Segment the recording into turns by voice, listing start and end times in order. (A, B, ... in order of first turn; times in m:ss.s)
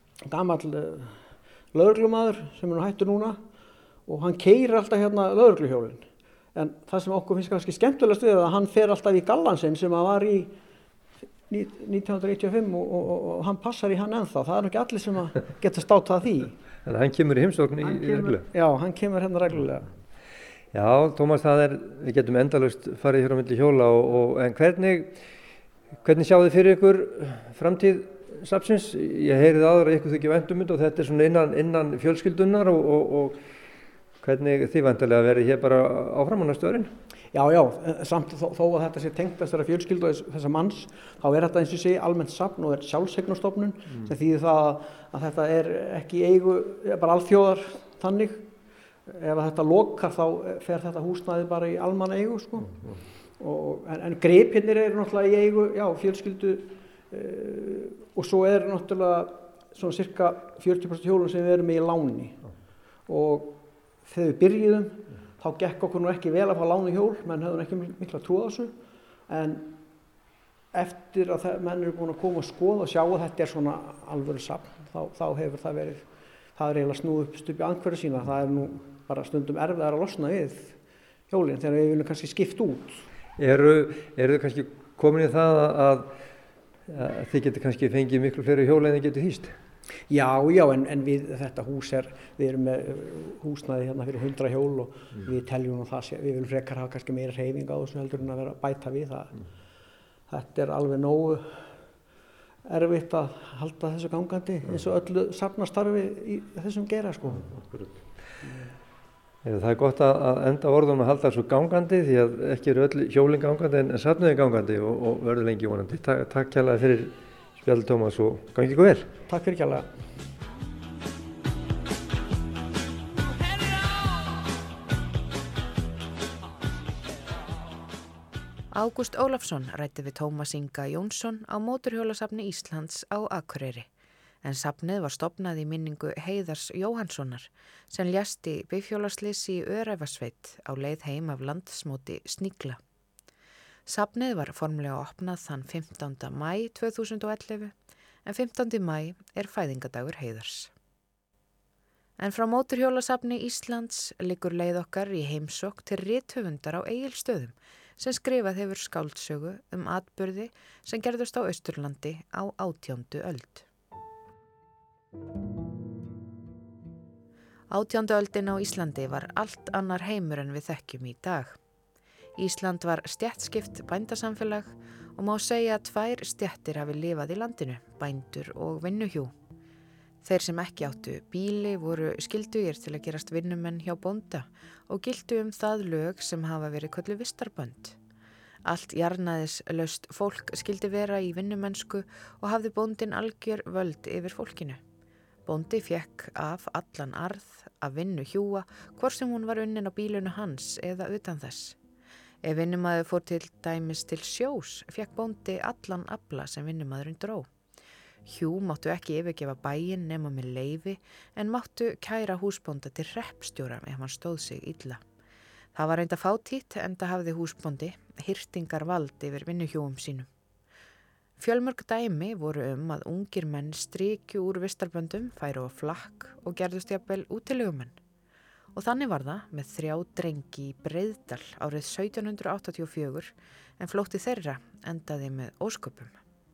0:00.2-0:03.4 A
0:04.1-0:10.5 A
0:11.5-0:16.6 A
0:16.8-0:18.5 B
0:17.8-0:19.9 A
0:20.7-0:25.2 B
0:26.0-0:33.4 B
0:34.2-0:36.9 B
0:37.3-0:48.5 A
0:49.1-0:52.7 A
0:53.4-1:02.4 A
1:03.1-1:08.7 A
1:09.3-1:09.8 A
1:10.7-1:20.8 A
1:21.3-1:23.0 A
1:23.4-1:26.1 B
1:26.9-1:29.6 B
1:30.1-1:39.4 A
1:40.3-1:41.8 A
1:42.6-1:47.6 A
1:49.4-1:59.1 B
1:59.3-1:59.9 A
2:08.7-2:13.9 C
2:14.4-2:22.8 C
2:23.9-2:27.7 C
2:28.2-2:30.7 C
2:32.2-2:43.6 C
2:47.7-2:51.6 C
2:52.4-2:59.3 C
3:00.2-3:08.0 C
3:08.6-3:14.8 C
3:15.4-3:21.8 C
3:22.4-3:27.5 C
3:28.2-3:35.0 C
3:35.8-3:40.3 C
3:41.4-3:47.9 C
3:48.7-3:56.1 C